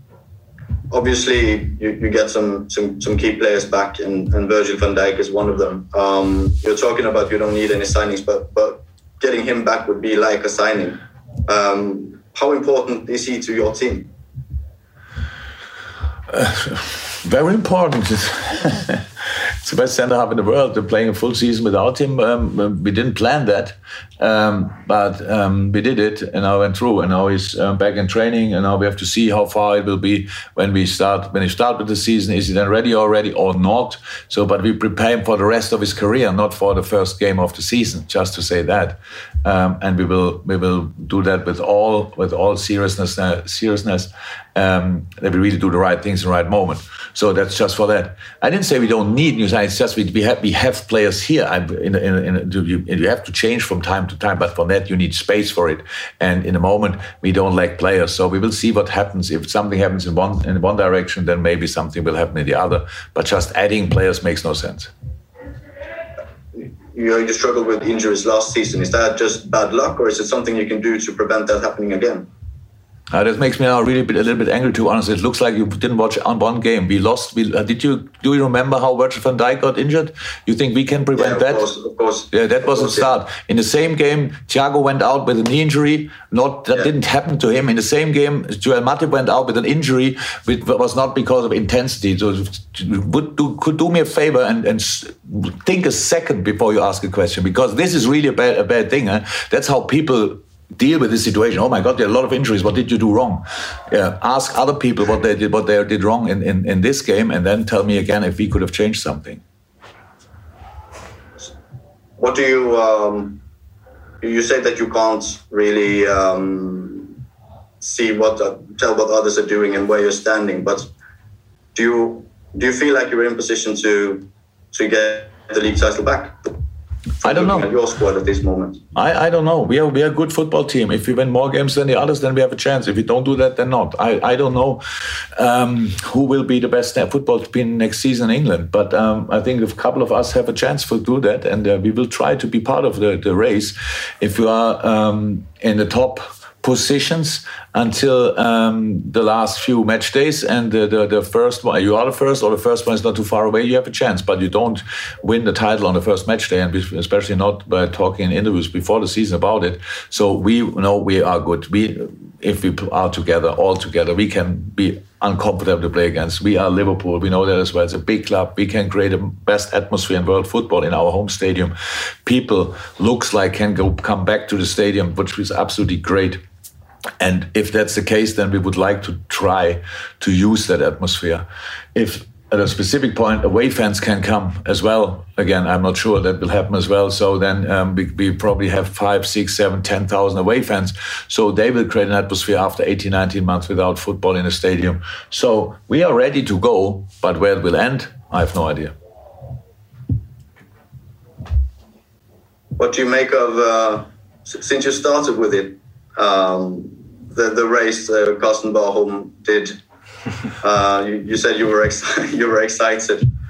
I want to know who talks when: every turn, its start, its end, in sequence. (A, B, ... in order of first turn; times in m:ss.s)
0:00.9-0:14.1 A
0:16.3-1:04.9 B
1:06.5-1:12.3 A
1:13.1-1:21.7 B
1:21.1-1:23.1 A
1:22.3-1:49.4 B
1:52.2-1:53.4 A
1:54.2-1:57.2 A
1:57.8-2:00.9 A
2:01.7-2:06.5 A
2:07.2-2:08.8 A
2:07.2-2:07.7 B
2:08.9-2:56.4 B
2:57.2-3:18.9 B
3:22.8-3:29.8 A
3:30.6-3:33.3 A